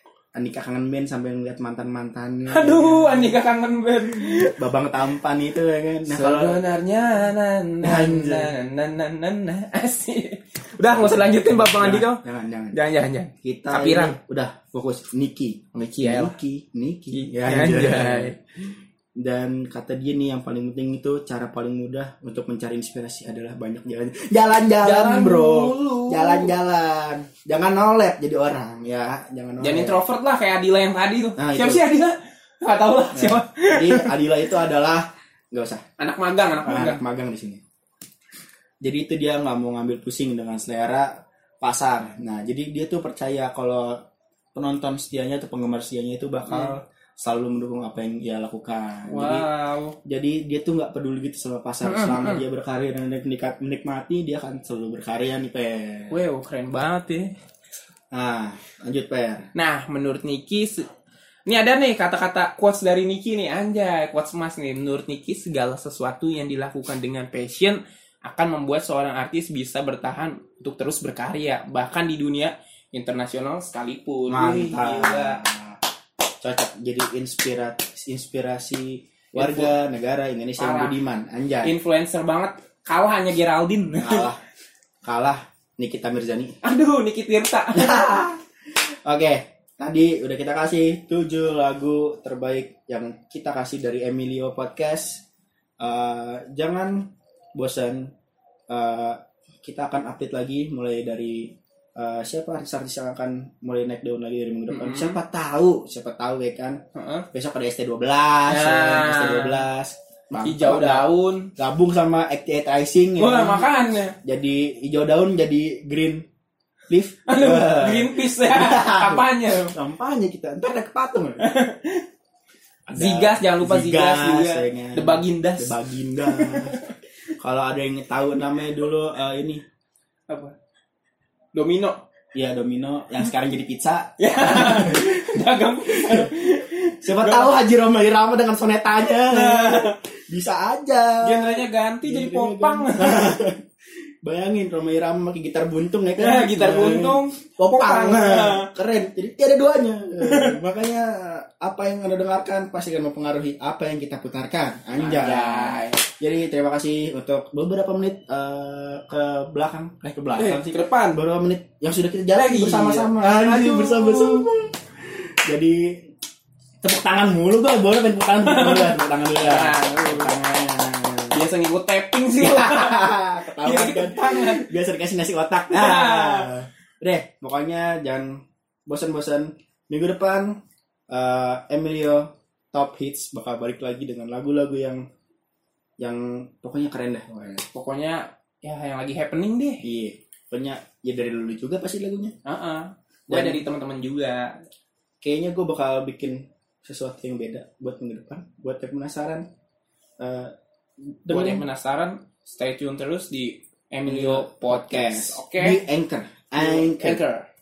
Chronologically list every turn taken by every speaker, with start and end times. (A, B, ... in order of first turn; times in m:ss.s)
0:00.3-0:03.4 A
0:02.5-0:04.6 B
0:04.4-0:06.6 A
0:06.1-0:12.2 B
0:07.8-0:08.5 A
0:10.8-0:12.8 A
0:12.7-0:14.2 B
0:13.4-0:18.4 A
0:15.7-0:16.3 B
0:17.1-0:18.4 B
0:19.2-0:30.0 A
0:24.8-0:26.5 B
0:29.6-0:34.2 B
0:31.4-0:31.8 A
0:33.1-0:35.8 A
0:36.0-0:37.0 B
0:36.6-0:37.6 A
0:38.8-0:44.0 A
0:44.5-0:49.5 A
0:46.5-0:46.7 B
0:49.1-0:49.9 B
0:50.0-0:56.2 A
0:51.8-0:52.4 B
0:56.1-0:57.3 B
0:58.1-0:59.5 A
0:59.6-1:00.8 B
1:01.5-1:15.4 B
1:14.3-1:15.8 A
1:16.4-1:21.8 A
1:19.3-1:19.7 B
1:20.6-1:21.0 B
1:21.6-1:24.3 B
1:24.0-1:24.4 A
1:25.0-1:26.6 A
1:26.6-1:28.2 B
1:27.7-1:35.2 A
1:35.8-1:38.1 A
1:38.7-1:46.8 A
1:44.7-1:45.2 B
1:46.9-1:47.2 B
1:47.3-1:56.2 A
1:48.5-1:49.7 B
1:50.4-1:51.5 B
1:53.2-1:54.1 B
1:56.9-2:01.4 A
1:57.3-1:59.7 B
2:01.4-2:02.0 B
2:02.9-2:06.8 A
2:02.9-2:06.9 B
2:07.4-2:09.6 A
2:10.3-2:10.5 B
2:11.5-2:12.0 B
2:12.3-2:15.2 A
2:14.2-2:17.5 B
2:15.9-2:16.3 A
2:17.0-2:23.6 A
2:19.3-2:20.0 B
2:21.2-2:23.4 B
2:24.2-2:46.0 A
2:26.2-2:28.7 B
2:30.2-2:30.6 B
2:34.9-2:36.0 B
2:40.4-2:41.2 B
2:42.3-2:44.5 B
2:46.8-2:51.4 A
2:48.4-2:50.3 B
2:51.3-2:53.1 B
2:52.4-3:00.6 A
2:53.6-2:54.6 B
2:55.7-2:56.5 B
3:01.1-3:05.0 A
3:06.0-3:07.6 A
3:07.7-3:09.8 B
3:09.8-3:12.3 A
3:12.4-3:14.6 B
3:13.3-3:13.6 A
3:15.2-3:19.5 A
3:20.2-3:20.5 A
3:21.0-3:21.6 A
3:21.3-3:25.8 B
3:24.0-3:27.2 A
3:26.6-3:27.4 B